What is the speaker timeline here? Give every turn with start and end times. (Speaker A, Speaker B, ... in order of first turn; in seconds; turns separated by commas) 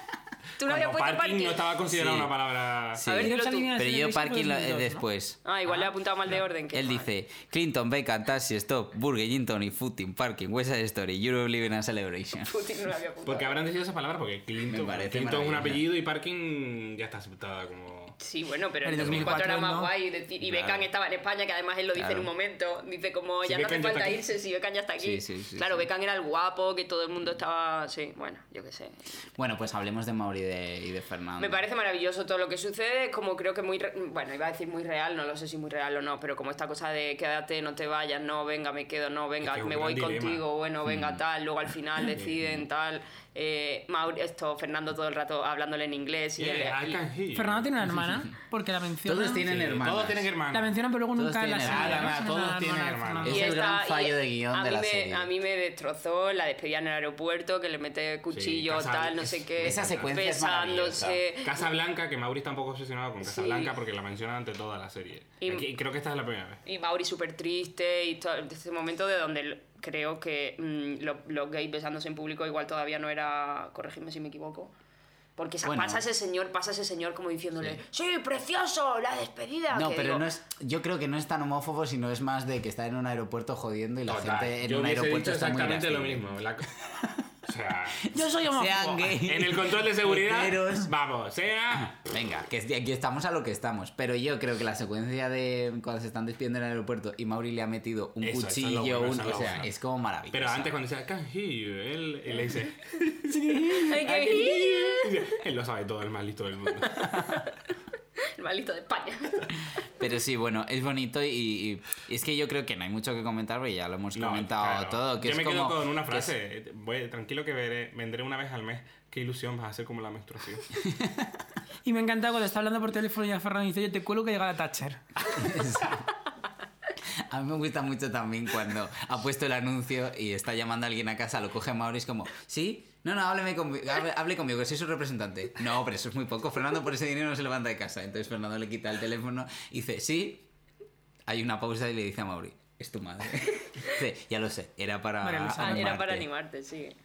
Speaker A: 0.6-1.6, Speaker B: 0.6-3.0, Speaker C: 1.9-2.3, Speaker C: 2.9-5.4, Speaker A: 3.0-3.7, Speaker D: 3.2-5.0, Speaker A: 5.5-7.1, Speaker C: 6.7-12.7, Speaker A: 12.4-13.6, Speaker B: 13.3-18.2, Speaker C: 14.7-15.8, Speaker A: 18.2-29.0, Speaker D: 18.8-19.9, Speaker B: 19.0-19.3, Speaker C: 20.4-20.9, Speaker C: 21.9-22.3, Speaker B: 23.4-24.2, Speaker C: 25.0-25.9, Speaker C: 29.4-31.6, Speaker A: 31.4-47.0, Speaker B: 39.4-40.4, Speaker C: 40.9-41.2, Speaker B: 46.4-47.7, Speaker D: 47.3-49.5, Speaker C: 49.0-50.3, Speaker B: 49.4-50.8, Speaker D: 50.5-53.5, Speaker C: 51.1-52.2, Speaker B: 51.6-53.4, Speaker C: 53.2-55.3, Speaker A: 53.3-61.7, Speaker B: 58.3-60.1, Speaker C: 59.6-61.2, Speaker B: 61.4-66.6, Speaker A: 63.2-63.7, Speaker A: 65.4-65.7, Speaker A: 66.7-74.7, Speaker A: 75.4-80.3, Speaker C: 75.6-76.0, Speaker C: 79.7-86.3, Speaker B: 84.1-86.7, Speaker B: 87.4-88.1, Speaker D: 88.1-89.2, Speaker C: 88.1-90.9, Speaker B: 89.2-92.0, Speaker C: 91.8-100.7, Speaker B: 98.2-99.7, Speaker B: 100.3-107.4, Speaker A: 103.7-105.3, Speaker A: 108.4-109.5, Speaker C: 110.0-116.3, Speaker B: 114.2-120.7, Speaker C: 120.8-121.4, Speaker D: 121.8-125.0, Speaker C: 125.3-126.1, Speaker C: 127.3-140.5, Speaker C: 141.3-146.3, Speaker D: 145.2-146.0, Speaker A: 145.6-147.0